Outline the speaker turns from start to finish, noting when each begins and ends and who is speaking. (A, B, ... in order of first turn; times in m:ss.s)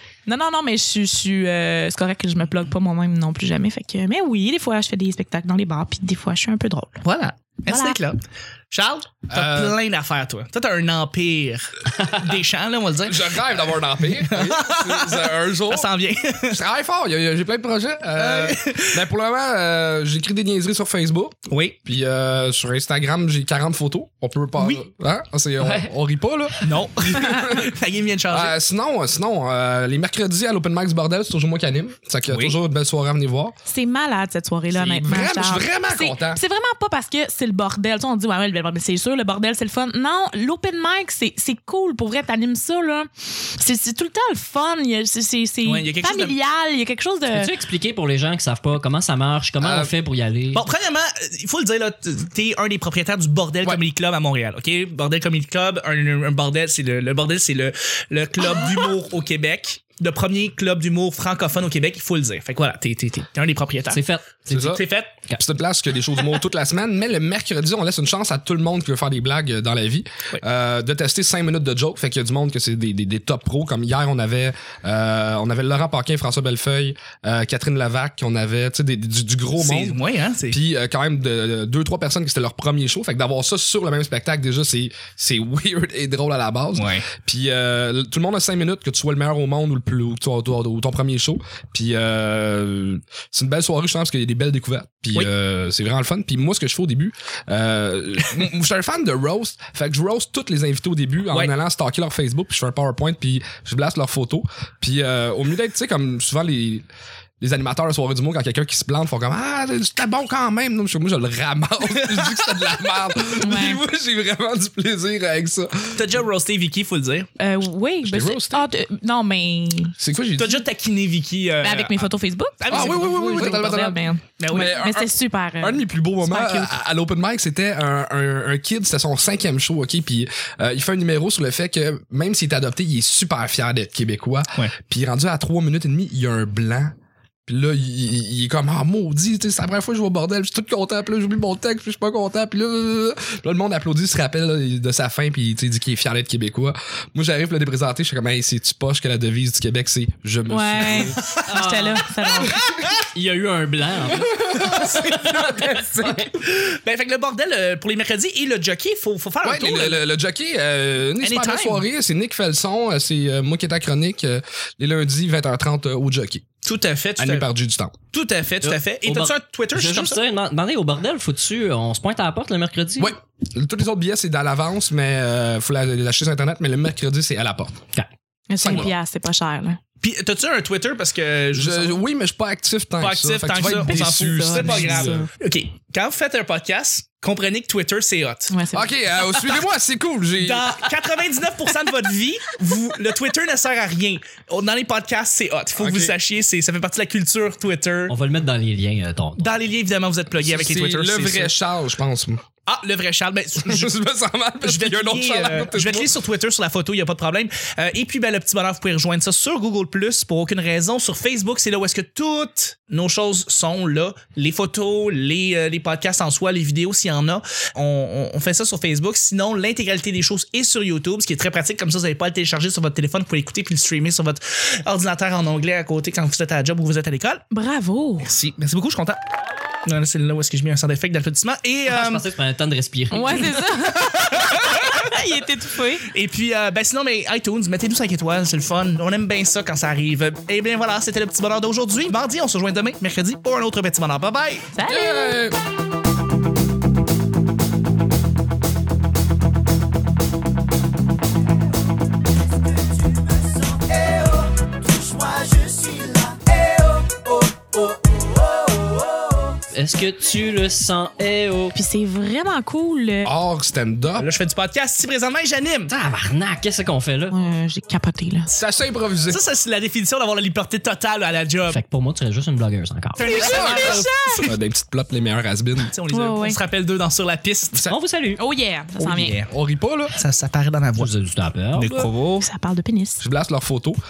0:00.2-0:07.0 A
0:07.0-0:13.4 B
0:07.7-0:08.0 A
0:09.3-0:09.8 C
0:13.0-0:15.9 C
0:14.0-0:16.6 B
0:16.5-0:27.7 C
0:18.1-0:19.0 B
0:21.5-0:21.8 B
0:24.6-0:24.8 B
0:25.6-0:25.9 D
0:26.6-0:28.5 B
0:28.3-0:33.5 C
0:32.3-0:32.6 B
0:33.7-0:47.5 A
0:34.7-0:36.4 C
0:45.6-0:46.4 B
0:47.3-0:50.6 D
0:49.6-0:49.9 C
0:50.5-1:04.0 B
1:03.9-1:04.8 D
1:04.5-1:04.8 C
1:04.5-1:05.1 B
1:05.4-1:20.0 C
1:19.6-1:20.6 B
1:20.5-1:46.8 C
1:26.8-1:27.1 B
1:47.4-1:56.1 C
1:51.9-1:52.5 B
1:53.4-1:53.8 A
1:55.9-1:57.3 B
1:57.4-1:59.9 A
1:58.0-1:58.7 C
2:00.0-2:00.6 C
2:00.4-2:03.6 B
2:01.6-2:06.7 A
2:02.7-2:16.9 C
2:04.4-2:04.9 B
2:17.5-2:31.2 C
2:30.5-2:32.6 A
2:31.4-2:32.0 D
2:32.4-2:33.0 B
2:33.1-2:36.3 D
2:34.1-2:35.8 C
2:34.5-2:40.0 B
2:39.4-2:46.4 C
2:41.2-2:41.8 B
2:46.6-2:47.5 B
2:47.2-2:47.9 C
2:48.1-2:50.2 B
2:48.6-2:53.1 D
2:53.0-2:57.8 C
2:58.5-2:59.8 A
2:58.6-2:58.9 C
3:00.0-3:02.0 B
3:01.5-3:05.3 C
3:03.0-3:08.6 B
3:03.9-3:05.3 A
3:08.5-3:09.5 A
3:08.7-3:11.0 C
3:10.4-3:18.1 B
3:15.8-3:16.1 C
3:18.1-3:19.5 D
3:19.4-3:21.5 B
3:20.4-3:22.4 C
3:22.7-3:23.9 B
3:23.6-3:26.1 C
3:24.6-3:47.4 B
3:47.5-3:48.3 A
3:48.2-3:49.2 B
3:49.8-3:52.2 B
3:51.9-3:53.6 D
3:53.1-3:56.1 A
3:53.9-3:55.1 B
3:56.1-4:04.7 B
4:04.7-4:05.4 A
4:04.8-4:05.6 C
4:12.6-4:19.5 E
4:19.7-4:21.8 D
4:21.7-4:23.3 A
4:23.2-4:24.3 C
4:24.2-4:25.9 B
4:25.9-4:27.4 D
4:27.3-4:28.5 A
4:28.5-4:29.4 C
4:29.3-4:31.8 B
4:31.7-4:33.2 D
4:33.2-4:34.5 B
4:33.2-4:34.5 A
4:33.5-4:35.9 C
4:35.9-4:37.9 B
4:36.1-4:36.6 A
4:37.9-4:38.4 D
4:38.4-4:39.4 A
4:39.0-4:39.5 B
4:39.5-4:40.1 C
4:40.2-4:41.1 B
4:41.0-4:42.1 D
4:41.8-4:42.4 B
4:42.4-4:43.2 A
4:43.2-4:44.0 C